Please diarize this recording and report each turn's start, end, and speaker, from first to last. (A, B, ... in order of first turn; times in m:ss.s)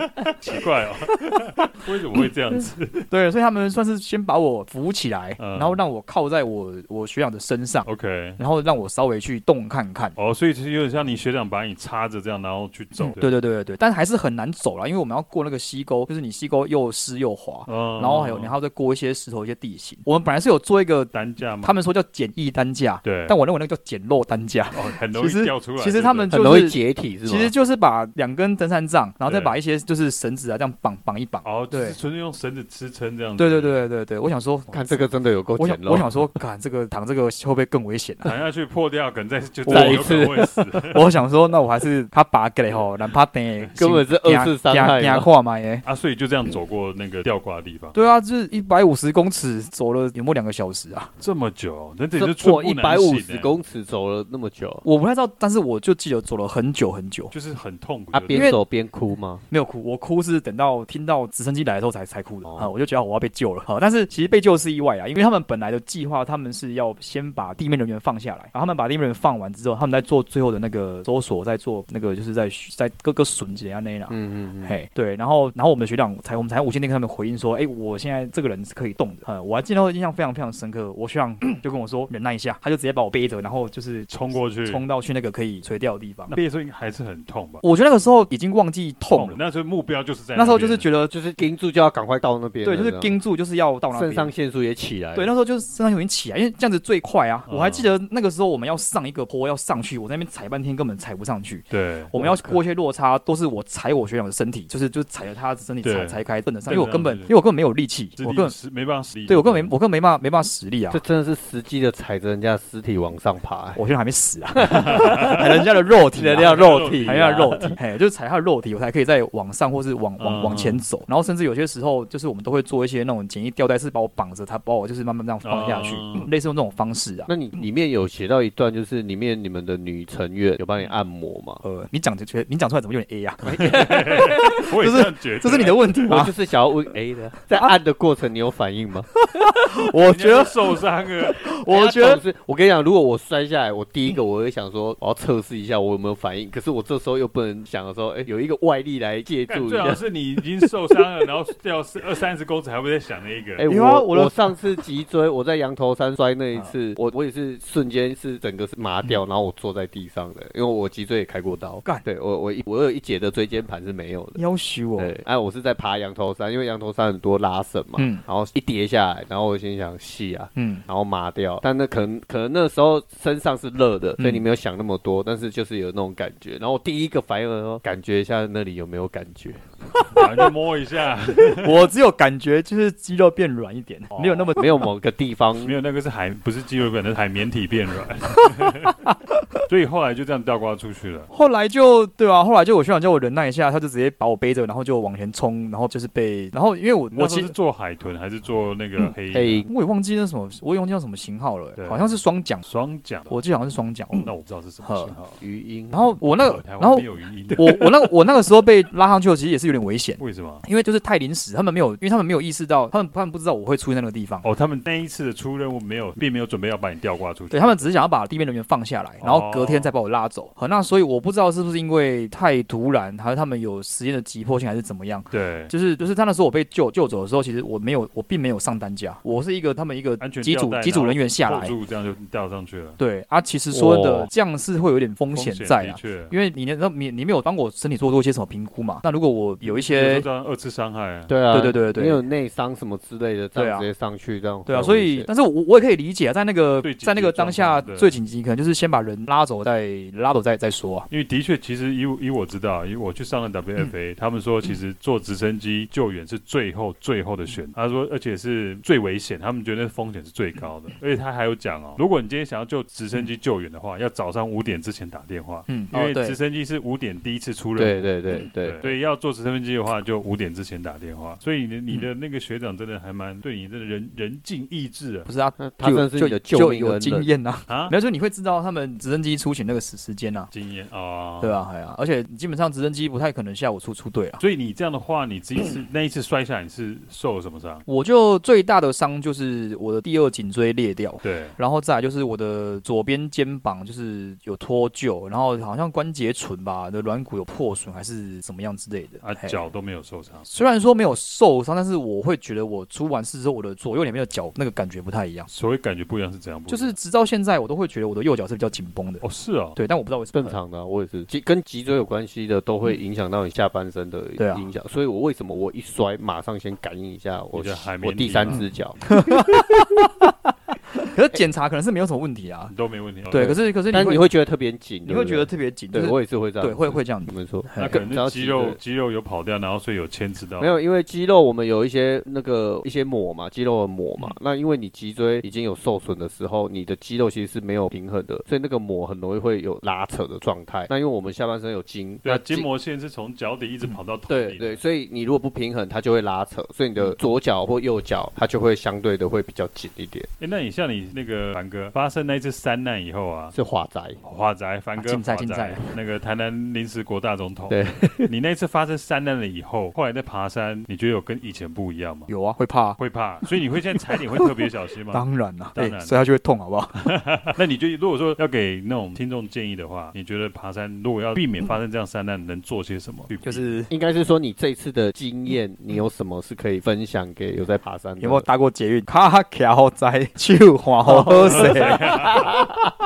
0:00.2-0:03.1 A
0:01.1-0:01.7 B
0:03.1-0:10.2 B
0:05.4-0:05.8 A
0:07.8-0:08.4 A
0:10.2-0:13.3 A
0:13.0-0:32.0 B
0:17.7-0:18.5 A
0:21.1-0:21.8 A
0:23.0-0:23.4 A
0:24.7-0:26.4 A
0:26.3-0:27.5 C
0:29.2-0:29.6 A
0:31.4-0:33.8 A
0:33.4-0:38.3 B
0:34.7-0:36.1 C
0:38.2-0:41.2 A
0:39.7-0:40.2 B
0:39.7-0:40.6 C
0:40.9-0:45.8 B
0:43.8-0:45.3 C
0:45.8-0:48.0 A
0:47.9-0:51.1 B
0:51.2-0:53.5 A
0:52.2-0:54.8 C
0:54.8-0:57.3 B
0:57.3-0:58.5 A
0:58.1-0:59.4 C
0:58.3-0:58.6 B
0:59.5-1:26.4 B
1:02.4-1:02.7 C
1:14.1-1:14.8 C
1:24.1-1:24.8 A
1:26.3-1:27.6 A
1:27.6-1:29.4 B
1:29.1-1:30.9 A
1:30.4-1:31.1 B
1:31.1-1:33.2 C
1:32.6-1:34.3 B
1:33.9-1:35.3 C
1:35.2-1:48.5 B
1:37.5-1:37.9 A
1:41.7-1:42.5 A
1:45.8-1:47.3 A
1:48.2-1:49.7 A
1:49.3-1:51.0 B
1:50.9-1:53.8 C
1:53.8-2:07.3 B
1:54.6-1:55.3 C
1:54.6-1:55.6 A
1:56.1-1:57.8 C
1:56.4-1:57.6 A
2:00.2-2:00.8 A
2:05.4-2:06.3 A
2:07.3-2:11.6 C
2:11.6-2:16.3 B
2:13.4-2:14.6 C
2:13.5-2:16.1 A
2:16.1-2:19.1 C
2:19.2-2:22.2 B
2:19.9-2:21.4 A
2:21.7-2:30.0 C
2:29.5-2:33.6 A
2:33.6-2:44.4 C
2:33.6-2:34.6 B
2:44.4-2:45.1 B
2:45.0-3:00.0 C
2:48.0-2:48.2 B
2:50.6-2:50.8 B
2:54.2-2:54.4 B
3:00.1-3:01.9 A
3:01.6-3:04.6 B
3:04.2-3:05.8 C
3:05.6-3:09.1 A
3:09.7-3:11.3 A
3:11.3-3:17.6 B
3:17.1-3:19.7 A
3:19.3-3:19.7 C
3:19.7-3:22.6 B
3:21.8-3:23.4 A
3:23.3-3:24.3 B
3:24.1-3:25.4 A
3:24.8-3:25.2 B
3:25.4-3:26.1 C
3:25.9-3:34.5 B
3:26.4-3:27.8 A
3:30.2-3:30.6 A
3:34.4-3:37.8 A
3:37.5-3:51.8 B
3:39.2-3:39.9 A
3:45.3-3:45.7 A
3:50.2-3:53.0 A
3:53.0-4:00.3 B
3:53.7-3:54.3 C
3:55.3-3:56.3 A
3:59.6-4:01.3 A
4:01.3-4:05.3 C
4:01.5-4:02.2 B
4:03.6-4:03.9 B
4:04.7-4:11.1 B
4:06.8-4:08.2 A
4:11.1-4:35.3 A
4:25.7-4:26.4 B
4:27.8-4:28.9 C
4:35.3-4:40.5 B
4:35.6-4:37.3 C
4:37.7-4:37.9 A
4:40.5-4:41.6 A
4:41.4-4:44.4 B
4:44.4-4:47.8 A
4:47.9-4:59.6 B
4:51.2-4:51.6 A
4:59.2-5:00.5 A
5:00.5-5:05.5 B
5:05.5-5:07.0 A
5:06.7-5:09.2 B
5:09.2-5:09.8 A
5:09.8-5:10.6 B
5:10.3-5:19.1 C
5:14.4-5:14.7 B
5:17.5-5:18.7 A
5:18.5-5:22.7 B
5:22.7-5:23.6 A
5:23.3-5:24.3 B
5:23.3-5:28.8 C
5:25.0-5:28.0 B
5:27.8-5:30.8 A
5:30.6-5:42.7 C
5:42.2-5:44.8 A
5:44.3-5:50.3 C
5:50.4-5:53.6 A
5:53.5-5:54.2 C
5:54.2-6:02.3 A
5:55.0-5:55.8 B
5:57.7-5:58.3 C
6:02.3-6:03.0 B
6:03.0-6:06.2 A
6:05.1-6:07.0 B
6:07.0-6:13.7 A
6:13.4-6:13.9 B
6:13.9-6:18.5 C
6:18.2-6:22.4 B
6:21.0-6:22.8 C
6:21.4-6:22.5 A